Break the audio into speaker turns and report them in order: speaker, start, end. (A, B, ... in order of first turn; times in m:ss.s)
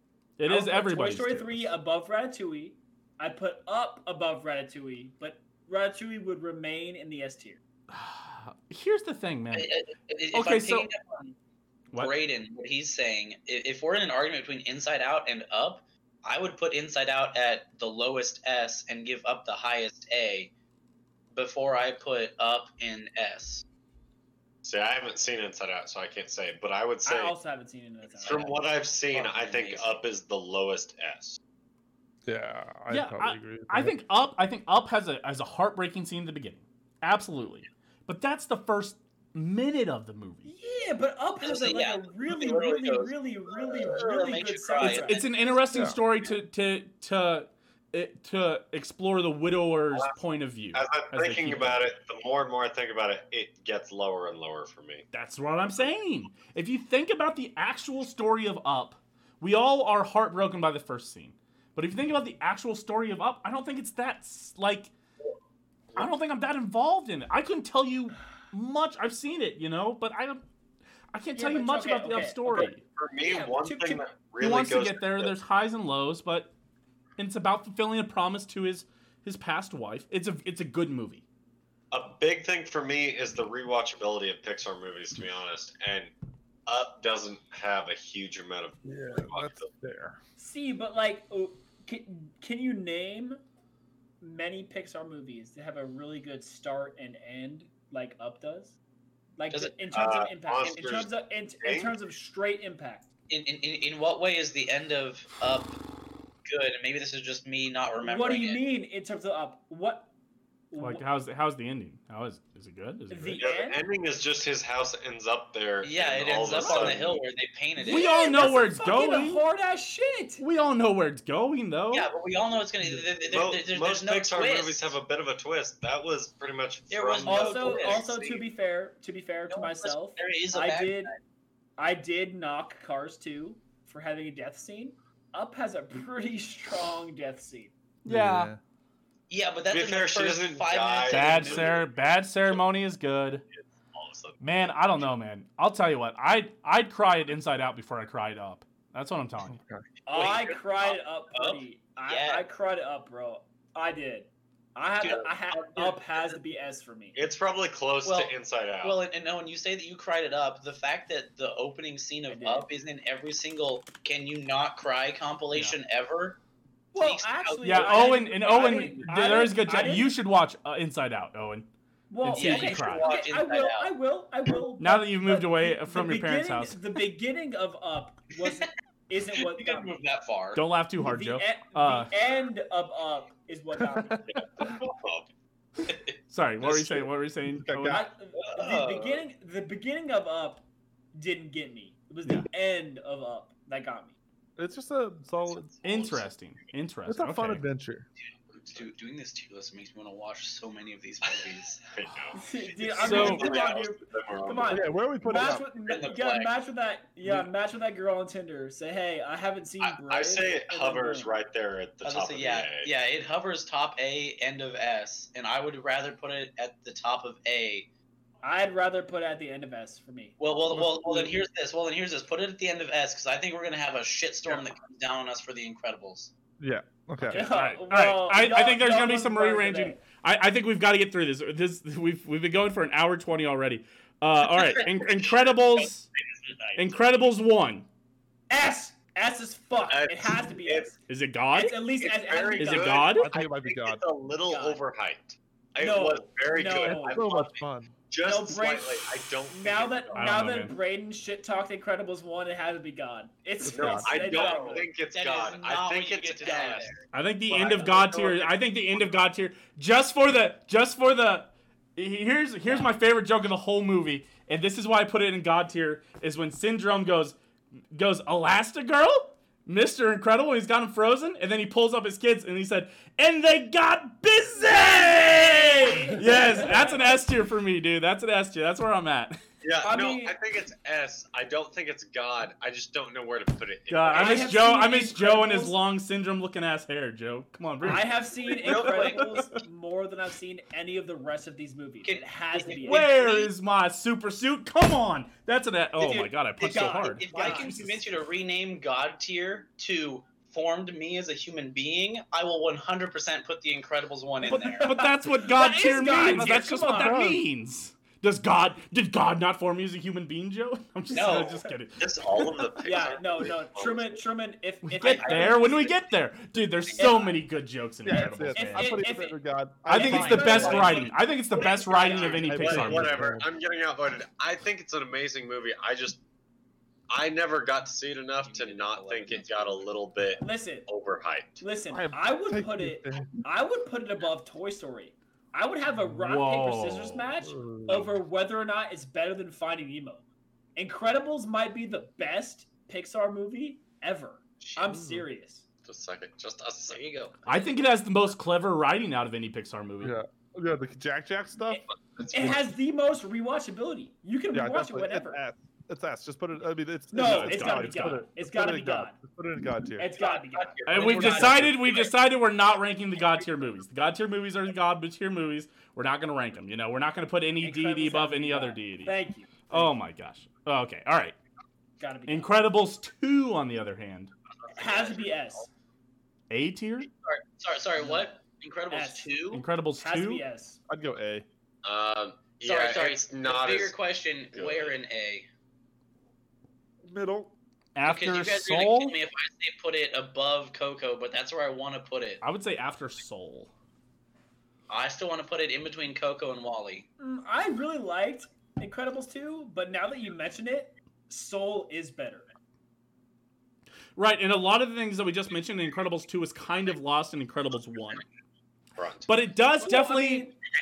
0:00.4-0:01.7 A
0:00.4-0:07.6 B
0:07.9-0:09.8 A
0:09.5-0:11.4 C
0:10.3-0:10.9 A
0:11.9-0:20.5 C
0:21.3-0:23.6 C
0:24.6-0:27.4 D
0:27.0-0:28.7 B
0:28.2-0:31.4 D
0:29.1-0:30.0 C
0:32.2-0:34.0 E
0:32.9-0:40.5 A
0:40.4-0:45.2 B
0:41.4-0:45.3 C
0:44.8-0:51.9 A
0:45.7-0:46.0 E
0:50.7-0:55.0 D
0:55.1-1:04.9 A
1:05.9-1:10.4 A
1:11.1-1:12.8 A
1:11.3-1:14.0 B
1:12.5-1:15.3 D
1:14.4-1:16.5 A
1:17.2-1:21.2 A
1:21.9-1:26.1 D
1:26.6-1:29.7 D
1:28.8-1:30.2 E
1:30.4-1:33.4 B
1:34.2-1:38.8 B
1:39.4-1:43.0 B
1:39.5-1:39.8 C
1:39.9-1:42.0 D
1:43.3-1:45.8 C
1:46.4-1:48.6 C
1:48.0-1:50.1 B
1:50.7-1:51.0 B
1:50.8-1:53.4 A
1:53.1-1:53.8 B
1:53.4-1:57.2 D
1:55.8-1:58.5 C
1:56.6-1:56.9 B
1:57.8-2:00.4 B
1:57.8-1:59.4 A
2:00.4-2:02.1 A
2:01.9-2:05.0 C
2:03.3-2:08.2 D
2:06.9-2:08.4 C
2:07.2-2:11.1 B
2:09.5-2:11.2 C
2:11.8-2:17.7 B
2:18.0-2:18.5 A
2:18.0-2:18.6 E
2:19.3-2:21.8 C
2:19.7-2:21.8 D
2:21.1-2:23.4 A
2:23.5-2:24.7 D
2:24.4-2:29.6 A
2:29.5-2:29.8 E
2:30.0-2:37.2 B
2:30.1-2:32.4 C
2:35.0-2:36.4 C
2:37.1-2:39.0 D
2:38.0-2:46.4 C
2:42.3-2:42.7 B
2:46.9-2:49.0 C
2:46.9-2:50.1 B
2:47.6-2:51.7 A
2:52.1-3:00.0 B
2:52.2-2:53.2 A
2:52.3-2:53.9 C
2:54.8-2:56.8 A
2:59.3-3:00.6 C
3:00.5-3:02.1 A
3:01.0-3:04.2 B
3:03.8-3:04.6 E
3:04.2-3:05.3 D
3:05.9-3:06.1 C
3:06.3-3:08.1 A
3:07.4-3:08.1 E
3:07.9-3:14.1 B
3:08.4-3:09.2 C
3:14.6-3:15.7 E
3:15.5-3:16.2 D
3:15.8-3:17.6 A
3:17.0-3:18.0 E
3:18.5-3:21.8 C
3:21.9-3:24.8 D
3:22.4-3:31.3 B
3:23.0-3:23.5 A
3:24.7-3:25.7 E
3:25.8-3:26.6 C
3:27.2-3:27.5 E
3:29.8-3:32.9 D
3:32.0-3:37.9 C
3:38.4-3:40.4 B
3:40.4-3:46.3 C
3:40.7-3:41.4 E
3:46.6-3:47.5 E
3:47.2-3:56.1 A
3:47.3-3:50.0 B
3:54.5-3:55.2 C
3:56.4-3:56.9 C
3:56.8-3:57.9 A
3:58.5-4:01.0 B
3:59.9-4:00.9 D
4:01.1-4:01.8 A
4:01.5-4:03.2 B
4:02.0-4:10.4 D
4:02.6-4:03.3 A
4:03.2-4:04.0 E
4:04.5-4:04.8 B
4:05.8-4:07.3 B
4:06.8-4:07.9 E
4:08.2-4:14.9 B
4:10.1-4:10.7 A
4:13.6-4:14.1 E
4:13.7-4:17.0 D
4:14.2-4:17.0 C
4:16.5-4:16.8 B
4:17.1-4:27.4 A
4:17.5-4:18.5 D
4:27.9-4:39.4 A
4:35.1-4:37.1 B
4:39.6-4:44.6 D
4:39.8-4:40.3 B
4:43.9-4:48.1 A
4:44.1-4:45.8 B
4:47.8-4:53.3 B
4:48.6-4:49.5 C
4:52.0-4:53.5 C
4:52.8-4:58.0 A
4:56.0-4:57.8 B
4:57.2-5:05.0 C
5:04.4-5:12.0 A
5:04.8-5:07.2 B
5:06.0-5:07.4 E
5:11.1-5:11.6 C
5:12.0-5:14.2 D
5:12.8-5:15.9 B
5:14.8-5:18.9 A
5:15.0-5:15.8 C
5:16.9-5:17.4 B
5:18.0-5:21.2 E
5:18.1-5:22.9 B
5:19.9-5:23.2 A
5:20.3-5:20.7 C
5:22.0-5:26.2 D
5:22.5-5:23.5 E
5:27.1-5:31.6 D
5:28.4-5:29.9 C
5:30.4-5:30.9 B
5:31.6-5:40.2 B
5:31.9-5:33.4 E
5:36.2-5:37.2 A
5:37.4-5:38.2 E
5:40.8-5:45.6 B
5:44.9-5:45.3 E
5:45.8-5:47.0 D
5:46.9-5:47.4 C
5:47.4-5:50.2 A
5:50.0-5:52.6 E
5:51.7-5:55.4 B
5:52.1-5:52.5 D
5:54.5-6:00.1 E
5:57.1-5:59.2 B
5:57.2-5:58.2 A
6:00.0-6:01.6 B
6:00.2-6:01.5 C
6:00.8-6:09.2 A
6:01.0-6:01.8 E
6:07.6-6:09.9 B
6:09.7-6:11.4 A
6:12.0-6:12.5 B
6:12.3-6:14.3 A
6:14.7-6:15.7 B
6:14.8-6:15.0 D
6:16.5-6:17.1 A
6:17.2-6:19.6 C
6:18.0-6:18.3 B
6:18.9-6:19.3 B
6:19.5-6:20.4 A
6:20.0-6:20.8 B
6:20.9-6:21.4 E
6:21.8-6:23.9 D
6:22.6-6:25.5 C
6:24.5-6:25.0 D
6:27.0-6:27.5 E
6:27.9-6:29.2 A
6:28.0-6:32.4 C
6:32.4-6:33.7 A
6:34.9-6:37.1 C
6:37.2-6:42.4 B
6:44.2-6:48.2 A
6:49.0-6:49.3 D
6:49.3-6:50.5 A
6:49.8-6:50.5 B